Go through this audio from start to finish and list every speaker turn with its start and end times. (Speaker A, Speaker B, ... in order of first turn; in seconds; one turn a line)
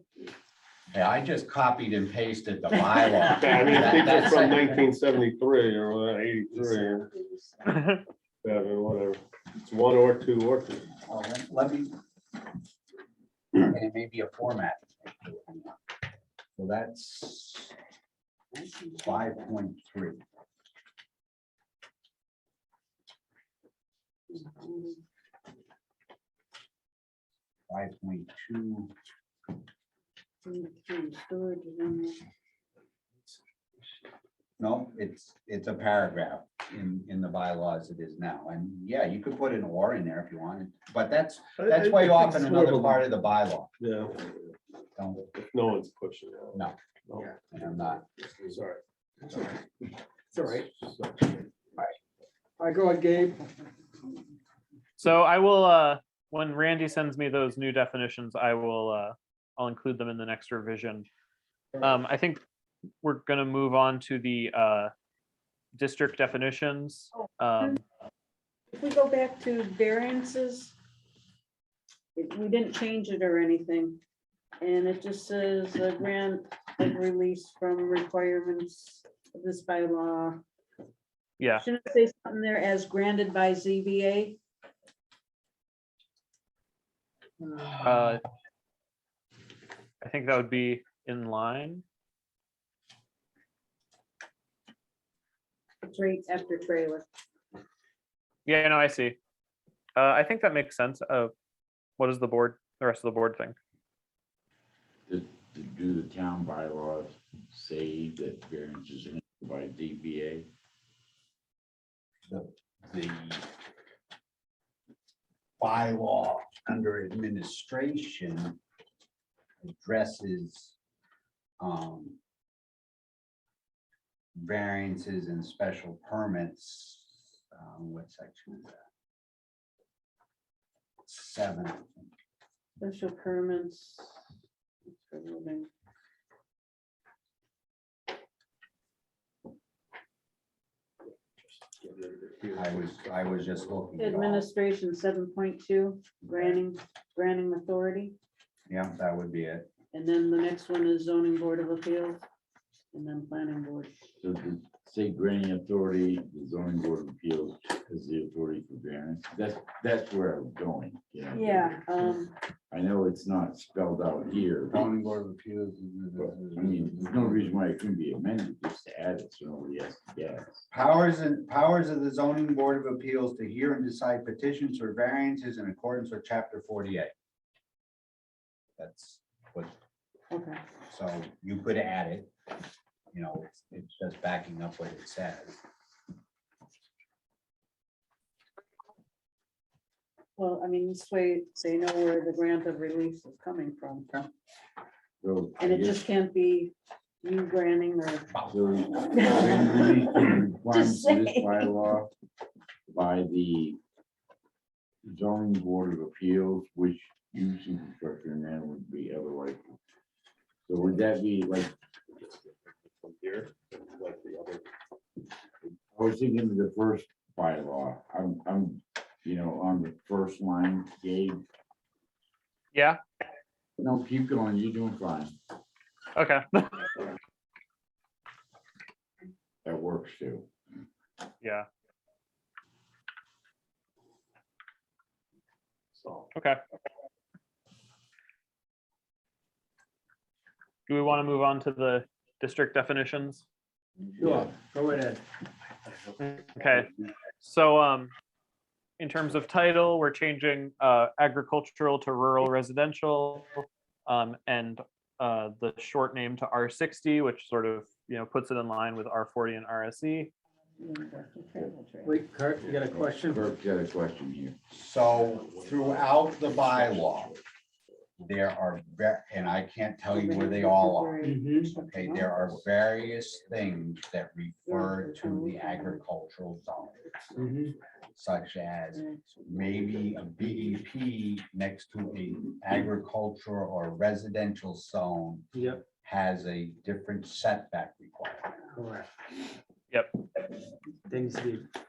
Speaker A: 0.9-4.7
Speaker B: 3.3-7.1
Speaker A: 6.7-7.3
Speaker C: 7.7-8.0
Speaker B: 8.4-10.9
Speaker A: 11.1-11.9
Speaker A: 13.5-15.8
Speaker A: 16.6-17.7
Speaker D: 18.6-19.0
Speaker A: 18.9-20.2
Speaker D: 24.3-25.0
Speaker A: 27.7-28.9
Speaker D: 30.4-32.2
Speaker A: 34.6-43.7
Speaker B: 41.6-43.0
Speaker B: 43.8-44.4
Speaker A: 45.0-45.3
Speaker B: 45.4-47.5
Speaker A: 47.5-48.6
Speaker B: 48.4-48.8
Speaker E: 50.3-50.7
Speaker B: 50.4-51.6
Speaker E: 52.6-53.5
Speaker C: 55.0-61.1
Speaker C: 61.8-62.4
Speaker C: 63.0-64.9
Speaker C: 65.7-67.8
Speaker D: 68.7-70.7
Speaker D: 72.1-74.0
Speaker D: 74.6-80.4
Speaker C: 81.4-81.6
Speaker D: 81.6-84.4
Speaker C: 87.8-88.2
Speaker C: 90.0-91.8
Speaker D: 95.8-97.1
Speaker C: 98.5-99.2
Speaker C: 100.0-101.3
Speaker C: 102.0-103.5
Speaker F: 105.1-110.5
Speaker A: 112.3-113.5
Speaker A: 115.6-118.6
Speaker A: 119.6-120.8
Speaker A: 121.6-122.2
Speaker A: 124.3-128.8
Speaker A: 131.0-132.1
Speaker D: 132.8-134.2
Speaker D: 134.9-135.7
Speaker B: 141.6-142.9
Speaker A: 142.5-144.5
Speaker D: 144.0-148.1
Speaker A: 148.7-149.7
Speaker D: 149.9-152.2
Speaker D: 152.9-153.9
Speaker F: 154.2-161.8
Speaker D: 161.3-162.3
Speaker F: 162.7-164.9
Speaker A: 164.7-167.6
Speaker F: 166.2-170.7
Speaker A: 170.7-177.1
Speaker A: 178.8-179.8
Speaker D: 180.3-180.6
Speaker A: 180.9-182.3
Speaker A: 183.1-185.6
Speaker D: 190.3-194.2
Speaker F: 195.2-196.1
Speaker D: 195.6-198.3
Speaker F: 198.5-202.1
Speaker D: 199.2-201.7
Speaker F: 202.9-203.8
Speaker F: 205.0-209.6
Speaker F: 210.7-211.7
Speaker B: 212.4-214.7
Speaker F: 215.9-221.4
Speaker C: 222.7-223.0
Speaker F: 223.8-225.4
Speaker C: 226.1-227.0
Speaker F: 229.6-230.5
Speaker C: 231.4-231.7
Speaker B: 236.0-236.3
Speaker C: 236.3-236.6
Speaker C: 240.9-243.4
Speaker E: 244.2-245.2
Speaker C: 246.2-246.9
Speaker C: 247.4-248.1
Speaker C: 249.0-260.3
Speaker D: 260.8-262.1
Speaker E: 262.0-263.5
Speaker F: 262.9-264.6
Speaker A: 264.7-267.3
Speaker B: 265.4-267.4
Speaker A: 268.2-277.5
Speaker D: 270.1-272.3
Speaker E: 271.2-271.7
Speaker D: 274.6-276.0
Speaker E: 277.3-277.7
Speaker A: 278.1-288.8
Speaker E: 285.5-285.9
Speaker E: 288.7-289.1
Speaker C: 289.9-290.2
Speaker E: 291.1-291.7